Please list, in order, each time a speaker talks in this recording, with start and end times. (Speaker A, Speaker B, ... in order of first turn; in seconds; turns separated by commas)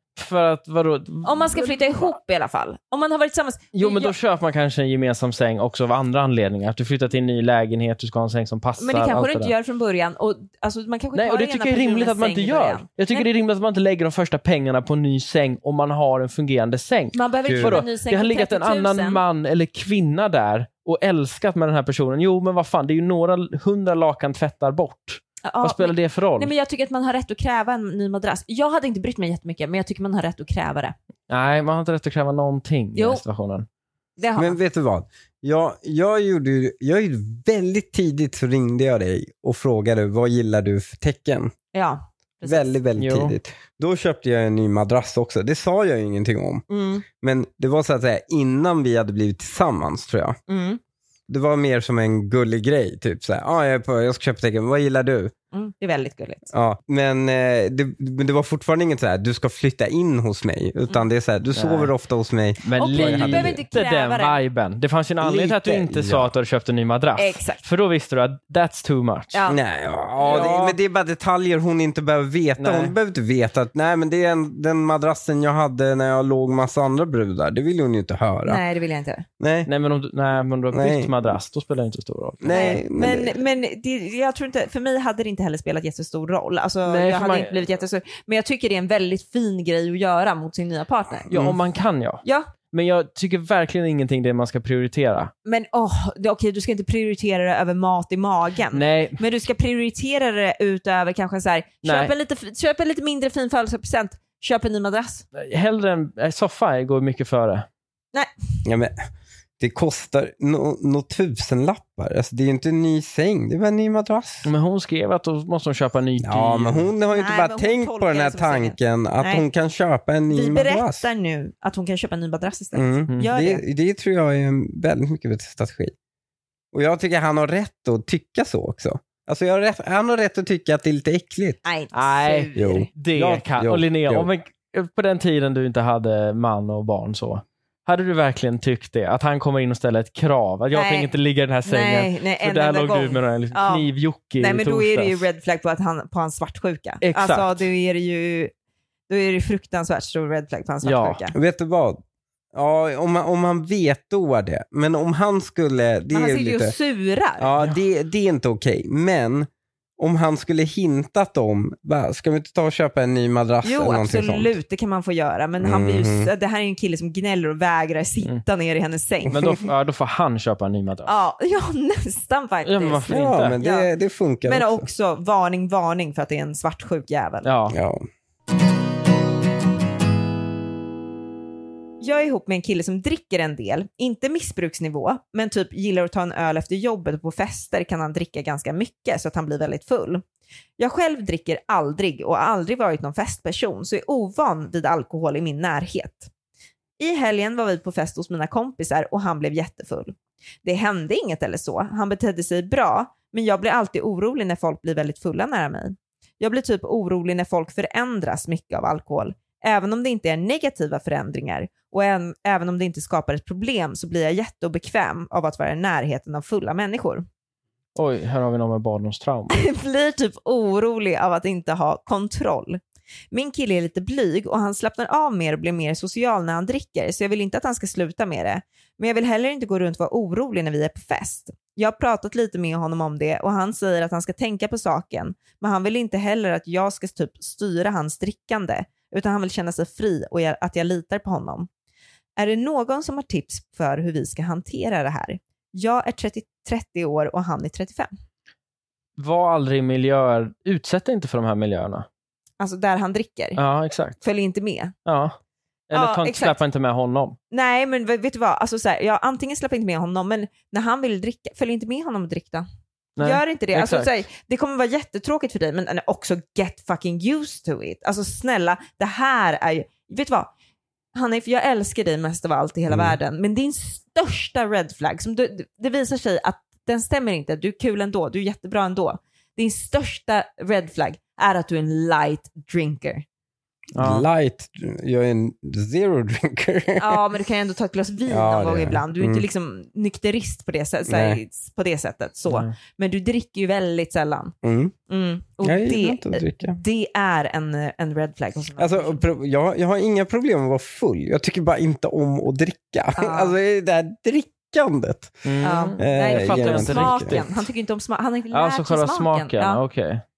Speaker A: 0.1-2.1, Speaker B: 1.2-4.1, Speaker A: 3.8-9.5, Speaker B: 8.8-13.3, Speaker A: 11.1-26.5, Speaker B: 17.1-19.2, Speaker C: 17.5-17.8, Speaker B: 25.4-30.9, Speaker A: 31.3-33.7, Speaker B: 32.9-33.2, Speaker B: 34.2-34.6, Speaker C: 34.4-41.5, Speaker B: 41.7-42.7, Speaker C: 42.4-50.4, Speaker A: 43.0-43.4, Speaker B: 46.7-47.0, Speaker B: 50.5-50.8, Speaker C: 51.3-55.3, Speaker B: 55.5-56.5, Speaker C: 56.5-63.6, Speaker A: 61.5-61.9, Speaker A: 62.6-69.4, Speaker B: 62.7-64.4, Speaker C: 65.2-66.3, Speaker B: 67.2-67.6, Speaker B: 69.3-69.6, Speaker C: 69.5-78.6, Speaker A: 70.2-70.8, Speaker A: 72.6-72.9, Speaker B: 78.4-79.2, Speaker C: 79.4-79.7, Speaker A: 79.7-82.8, Speaker C: 80.7-81.2, Speaker C: 82.4-83.4, Speaker B: 82.5-91.3, Speaker A: 86.8-87.7, Speaker C: 91.3-91.6, Speaker A: 91.3-95.3, Speaker B: 92.2-92.5, Speaker B: 95.4-105.2, Speaker A: 98.7-99.2, Speaker A: 101.8-102.1, Speaker A: 105.3-107.7, Speaker C: 108.6-108.9, Speaker C: 109.6-114.5, Speaker A: 114.4-116.9, Speaker C: 116.2-121.0, Speaker B: 117.1-119.4, Speaker B: 120.3-123.6, Speaker C: 122.7-125.9, Speaker C: 126.7-131.6, Speaker B: 131.6-132.9, Speaker A: 131.9-145.3, Speaker C: 132.6-134.3, Speaker B: 140.7-141.1, Speaker B: 141.6-143.9, Speaker B: 144.4-148.5, Speaker A: 147.0-147.6, Speaker B: 149.1-151.3, Speaker A: 150.8-151.2, Speaker C: 151.3-152.0, Speaker C: 152.5-156.7, Speaker B: 156.1-157.5, Speaker C: 157.4-159.5, Speaker C: 160.0-164.6, Speaker B: 163.6-169.5, Speaker C: 165.6-166.3, Speaker A: 169.3-171.1, Speaker B: 171.1-173.9, Speaker A: 172.6-173.6, Speaker C: 173.1-174.8, Speaker B: 174.4-177.5, Speaker A: 177.4-177.8, Speaker C: 177.7-178.0, Speaker B: 182.0-190.2, Speaker B: 190.8-196.3, Speaker B: 197.0-217.2, Speaker A: 217.9-219.6, Speaker B: 219.5-222.8, Speaker B: 223.3-241.7, Speaker B: 242.4-248.1, Speaker A: 249.2-252.1, Speaker B: 252.6-253.6, Speaker A: 253.6-254.2, Speaker B: 254.2-254.9, Speaker A: 255.1-255.3, Speaker A: 255.9-257.4, Speaker B: 255.9-256.6, Speaker B: 257.5-262.6, Speaker A: 263.1-264.1, Speaker B: 263.2-270.5, Speaker B: 271.1-283.2, Speaker C: 272.9-273.2, Speaker A: 283.9-284.2, Speaker C: 284.0-287.2, Speaker B: 287.0-294.5, Speaker C: 288.3-289.4, Speaker C: 291.1-291.4, Speaker C: 294.6-294.9, Speaker B: 295.1-299.2, Speaker C: 295.6-296.8, Speaker C: 298.8-307.4, Speaker B: 303.1-303.6, Speaker A: 305.4-307.6, Speaker B: 305.6-309.8, Speaker A: 308.5-310.2